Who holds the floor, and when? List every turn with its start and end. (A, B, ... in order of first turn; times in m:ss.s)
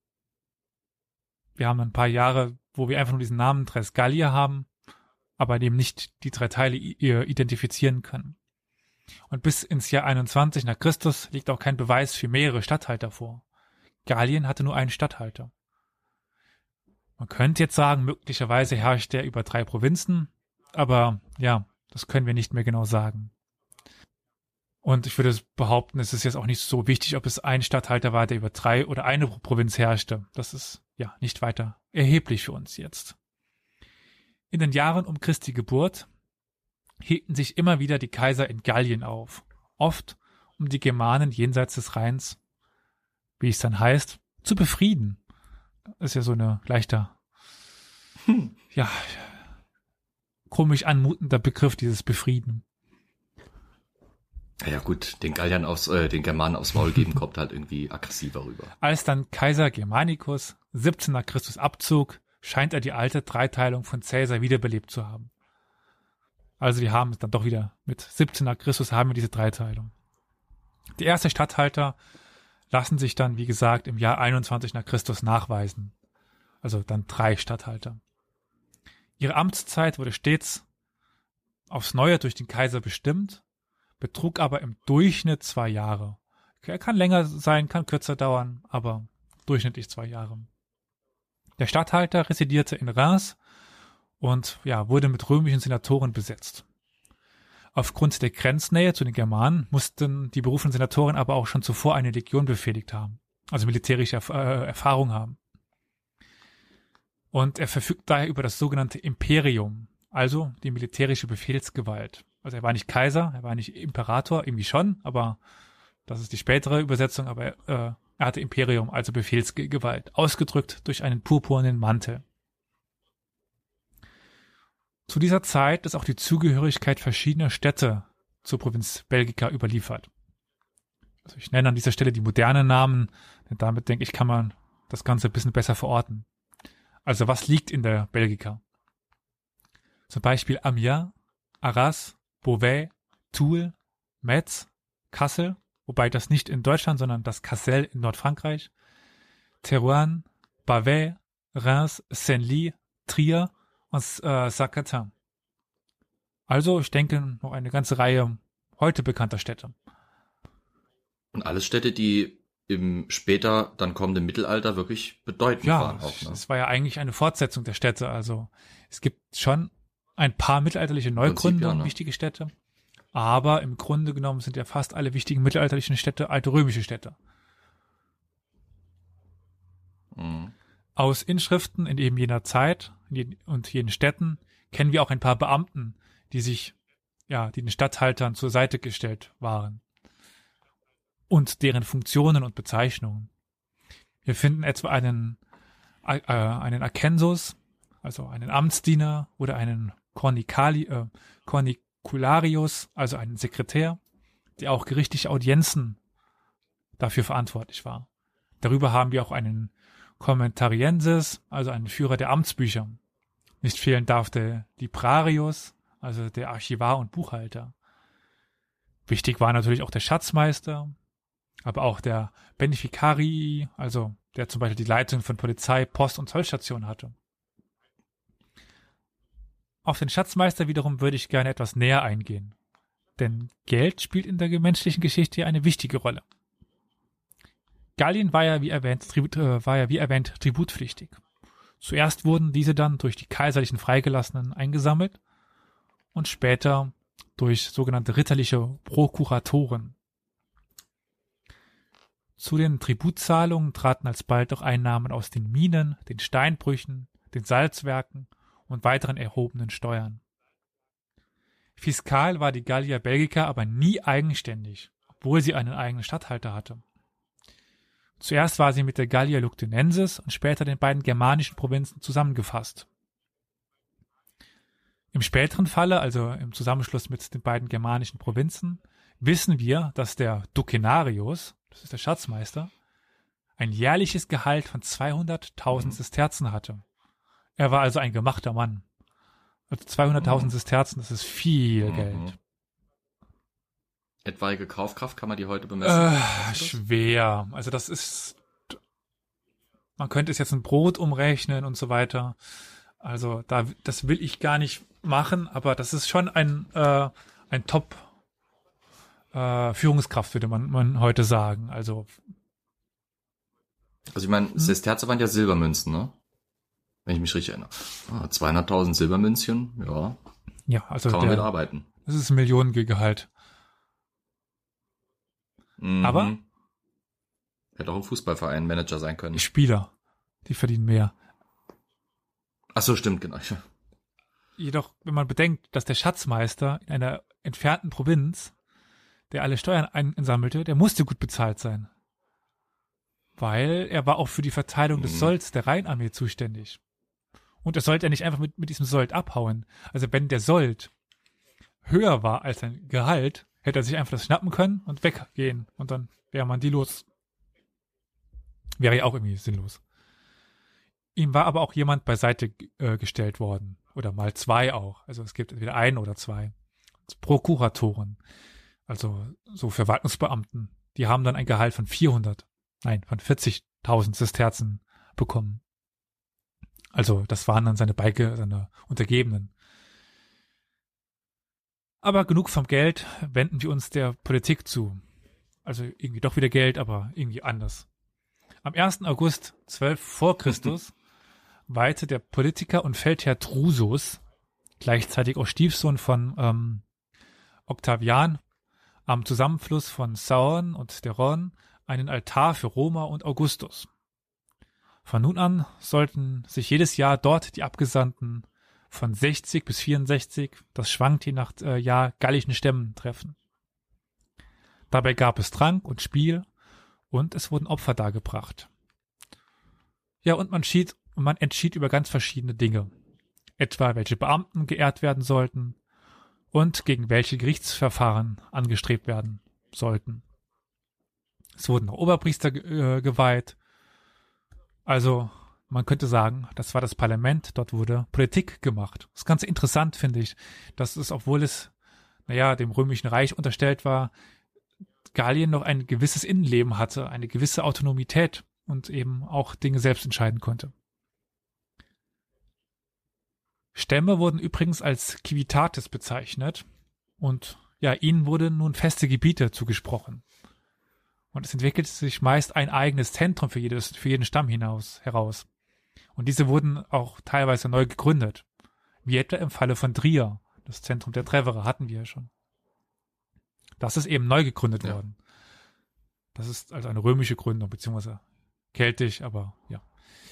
0:01.6-0:04.7 A
0:05.4-0:08.4 A
0:09.3-0:13.4 A
0:14.1-0:15.5 A
0:17.2-0:23.3 A
0:24.8-0:33.2 A
0:34.5-0:36.1 A
0:37.0-0:42.4 A
0:43.4-0:45.2 A
0:46.0-0:47.1 A
0:48.7-0:49.3 A
0:50.5-0:52.6 A
0:54.6-0:58.7 B
0:58.8-1:05.3 A
1:06.6-1:09.9 A
1:11.0-1:12.0 A
1:12.7-1:15.9 A
1:16.6-1:18.0 A
1:19.2-1:20.6 A
1:21.7-1:23.4 A
1:24.0-1:30.5 A
1:31.6-1:33.4 A
1:34.2-1:36.6 A
1:37.8-1:45.4 A
1:47.3-1:55.4 A
1:56.1-2:02.2 A
2:05.1-2:10.1 A
2:11.2-2:16.3 A
2:17.0-2:18.6 A
2:20.1-2:28.7 A
2:29.6-2:35.1 A
2:36.5-2:39.7 A
2:41.3-2:46.4 B
2:45.6-2:52.5 A
2:51.2-2:51.9 B
2:53.1-2:57.2 A
3:00.2-3:00.5 B
3:01.0-3:06.8 A
3:07.3-3:09.8 A
3:11.3-3:13.3 A
3:14.2-3:15.4 A
3:16.0-3:24.0 A
3:24.6-3:26.0 A
3:27.0-3:28.1 A
3:28.6-3:33.0 A
3:33.6-3:37.7 A
3:39.1-3:40.9 A
3:41.7-3:47.2 A
3:49.8-3:52.6 A
3:53.2-3:56.2 A
3:58.0-4:01.2 A
4:01.8-4:05.2 A
4:06.1-4:10.0 A
4:12.4-4:20.2 A
4:21.8-4:26.8 A
4:28.2-4:32.9 A
4:35.1-4:42.7 A
4:43.6-4:46.8 A
4:45.7-4:46.0 B
4:47.6-4:48.8 A
4:49.7-4:52.4 A
4:50.2-4:50.5 B
4:51.8-4:52.3 B
4:54.2-4:56.8 B
4:55.8-4:58.8 A
5:00.0-5:02.4 A
5:03.0-5:08.1 A
5:09.3-5:12.1 A
5:14.1-5:16.2 B
5:17.1-5:20.2 B
5:20.7-5:21.5 A
5:21.1-5:21.8 B
5:22.0-5:23.3 A
5:25.8-5:26.4 B
5:26.0-5:26.4 A
5:27.8-5:29.5 B
5:29.3-5:29.9 A
5:30.4-5:31.1 A
5:32.7-5:33.6 B
5:34.6-5:38.5 A
5:39.3-5:41.9 A
5:43.4-5:46.8 A
5:45.0-5:45.3 B
5:47.6-5:50.9 A
5:51.8-5:57.1 A
5:58.8-5:59.8 A
6:01.2-6:06.5 A
6:07.1-6:08.2 A
6:08.9-6:15.6 A
6:16.9-6:19.5 A
6:22.0-6:25.0 A
6:25.6-6:27.9 A
6:28.6-6:30.9 A
6:31.7-6:34.2 A
6:34.8-6:36.8 A
6:37.7-6:38.4 A
6:39.1-6:43.9 A
6:45.0-6:53.4 A
6:54.9-6:56.5 A
6:57.1-6:58.7 A
7:00.2-7:02.9 A
7:03.6-7:05.8 A
7:06.5-7:10.2 A
7:11.6-7:13.6 A
7:14.9-7:21.7 A
7:22.3-7:24.1 A
7:25.1-7:30.7 A
7:33.7-7:36.7 A
7:37.2-7:40.2 A
7:41.3-7:45.5 A
7:46.2-7:48.4 A
7:49.0-7:52.3 A
7:53.8-7:55.2 A
7:56.4-7:58.2 A
7:58.7-7:59.8 A